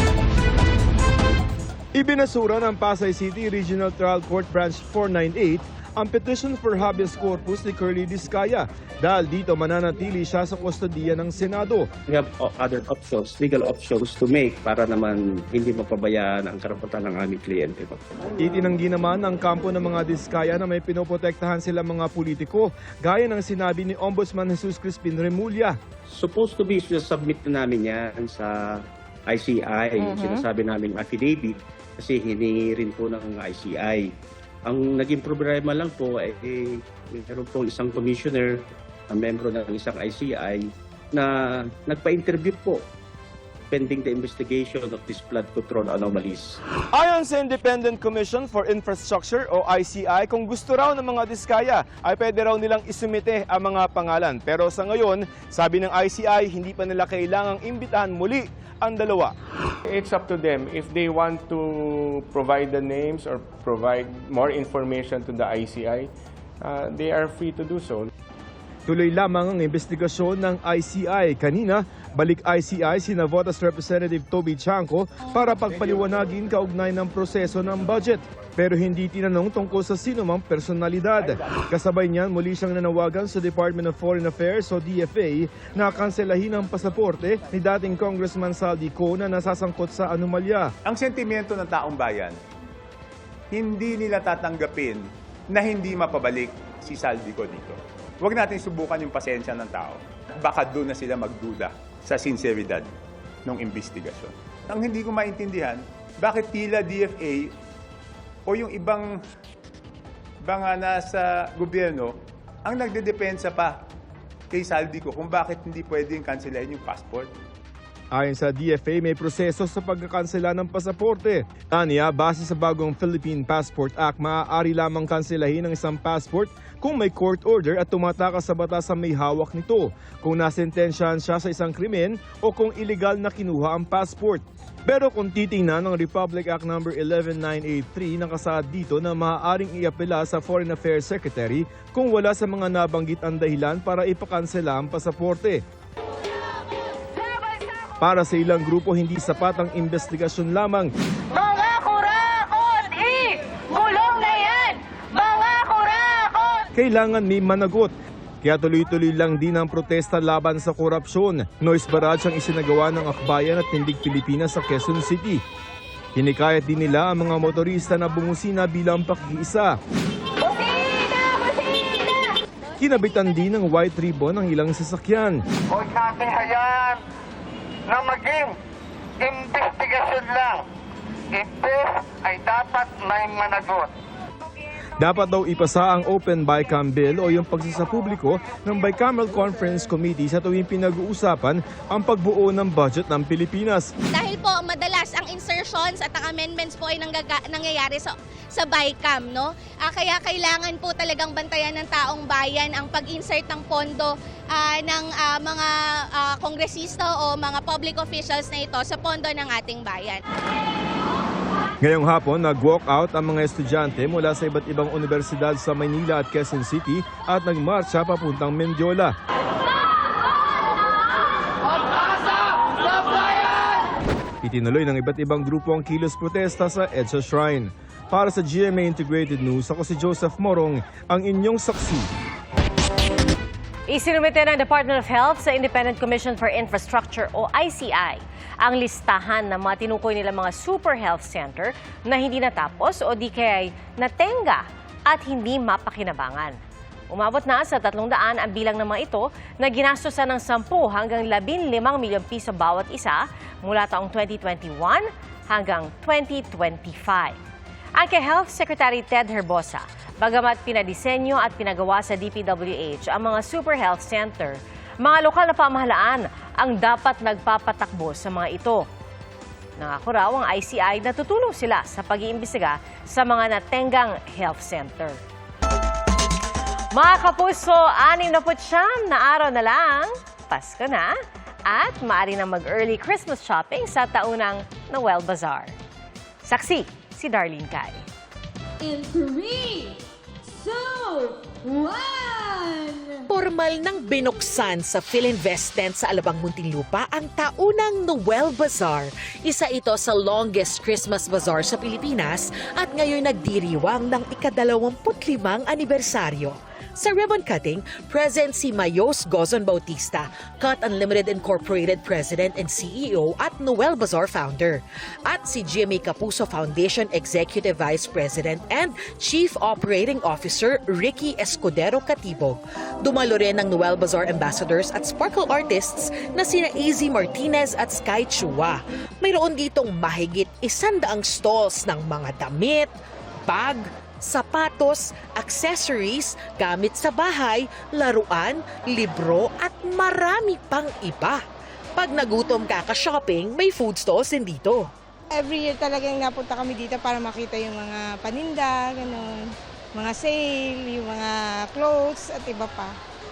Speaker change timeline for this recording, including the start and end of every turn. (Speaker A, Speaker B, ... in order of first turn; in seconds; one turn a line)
Speaker A: 1.9-11.9
Speaker B: 12.1-18.0
Speaker A: 18.4-25.8
Speaker B: 26.1-34.1
Speaker B: 34.7-42.8
Speaker B: 43.7-46.6
Speaker A: 46.9-59.3
Speaker C: 60.0-61.6
Speaker C: 62.3-66.0
Speaker C: 66.7-68.0
Speaker A: 68.9-90.7
Speaker D: 90.9-92.4
Speaker D: 93.5-102.9
Speaker D: 103.5-107.5
Speaker D: 108.5-109.1
Speaker D: 110.4-113.8
Speaker D: 114.5-117.3
Speaker A: 118.1-145.6
Speaker E: 147.2-147.9
Speaker A: 148.0-150.9
Speaker E: 151.3-156.6
Speaker A: 156.7-165.4
Speaker A: 166.2-169.8
Speaker E: 170.5-172.2
Speaker A: 172.8-175.4
Speaker A: 185.0-193.9
Speaker F: 194.2-210.2
Speaker A: 211.8-219.1
Speaker A: 224.4-232.1
Speaker G: 233.9-246.6
Speaker G: 247.1-257.4
Speaker G: 258.0-268.9
Speaker G: 269.8-275.2
Speaker G: 276.9-281.1
Speaker G: 281.7-285.7
Speaker G: 286.4-288.1
Speaker H: 293.3-332.9
Speaker H: 333.5-341.4
Speaker H: 342.0-344.9
Speaker I: 345.3-349.4
Speaker I: 350.0-352.9